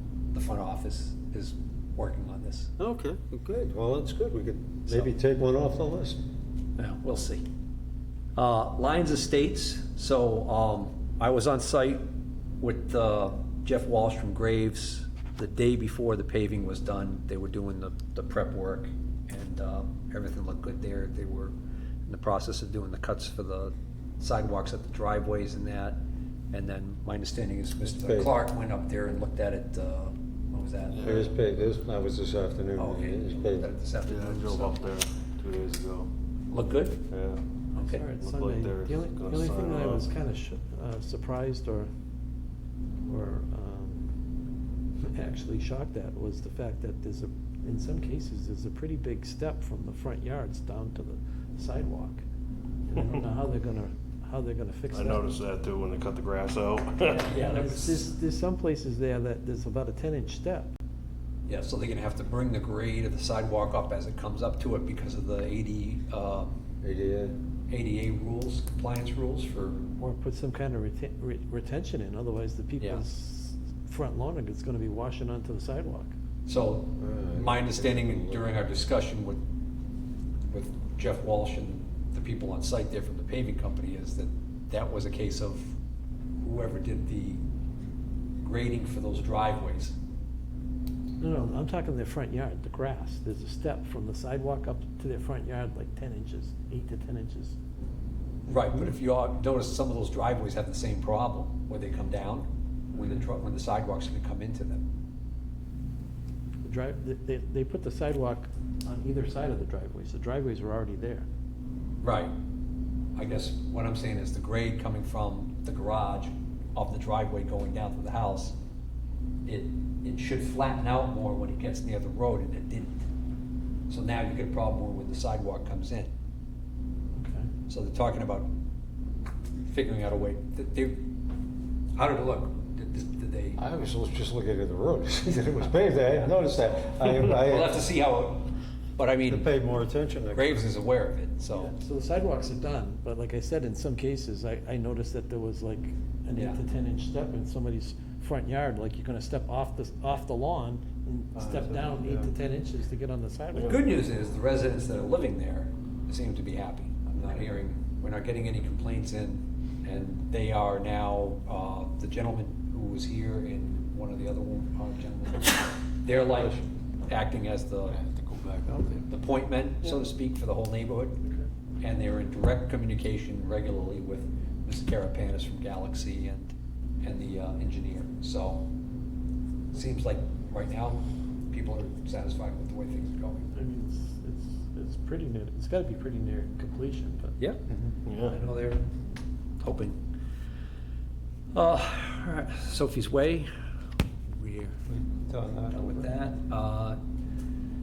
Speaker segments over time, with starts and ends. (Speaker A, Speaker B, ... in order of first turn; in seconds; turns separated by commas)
Speaker A: 0.3-2.7, Speaker B: 2.8-6.2, Speaker A: 6.8-7.4, Speaker A: 8.4-12.0, Speaker A: 12.6-21.5, Speaker A: 22.1-26.0, Speaker A: 26.5-31.1, Speaker B: 27.9-28.4, Speaker C: 30.9-31.3, Speaker B: 31.0-33.7, Speaker A: 32.8-34.8, Speaker C: 34.1-36.1, Speaker A: 36.5-37.0, Speaker C: 37.1-37.4, Speaker D: 37.7-41.9, Speaker A: 37.8-38.0, Speaker C: 38.2-40.1, Speaker D: 43.1-44.1, Speaker D: 45.0-52.2, Speaker D: 52.9-55.3, Speaker C: 54.9-57.3, Speaker A: 57.1-58.1, Speaker D: 57.1-60.7, Speaker A: 61.5-66.5, Speaker B: 66.8-67.3, Speaker A: 67.7-69.8, Speaker D: 70.0-76.1, Speaker A: 76.5-79.4, Speaker B: 77.0-78.5, Speaker A: 80.5-85.7, Speaker A: 86.4-87.4, Speaker A: 88.4-90.0, Speaker D: 91.2-97.6, Speaker A: 98.5-104.8, Speaker D: 103.0-103.2, Speaker D: 106.6-111.3, Speaker A: 112.0-112.3, Speaker A: 113.2-118.6, Speaker A: 119.5-123.0, Speaker A: 123.9-126.1, Speaker D: 127.2-127.5, Speaker A: 127.7-128.5, Speaker A: 129.6-131.1, Speaker A: 132.0-133.6, Speaker B: 133.6-137.9, Speaker A: 136.1-139.5, Speaker B: 139.3-140.7, Speaker A: 140.3-141.7, Speaker D: 141.5-153.8, Speaker A: 146.3-146.6, Speaker B: 151.3-152.3, Speaker C: 153.6-153.8, Speaker A: 153.6-168.0, Speaker B: 166.1-166.6, Speaker B: 167.9-169.1, Speaker A: 169.1-171.2, Speaker A: 171.8-178.6, Speaker A: 179.7-183.5, Speaker D: 183.5-187.4, Speaker C: 188.1-188.4, Speaker A: 188.2-188.8, Speaker A: 189.6-190.0, Speaker A: 191.5-193.5, Speaker A: 194.3-194.8, Speaker B: 194.9-195.8, Speaker A: 195.7-197.0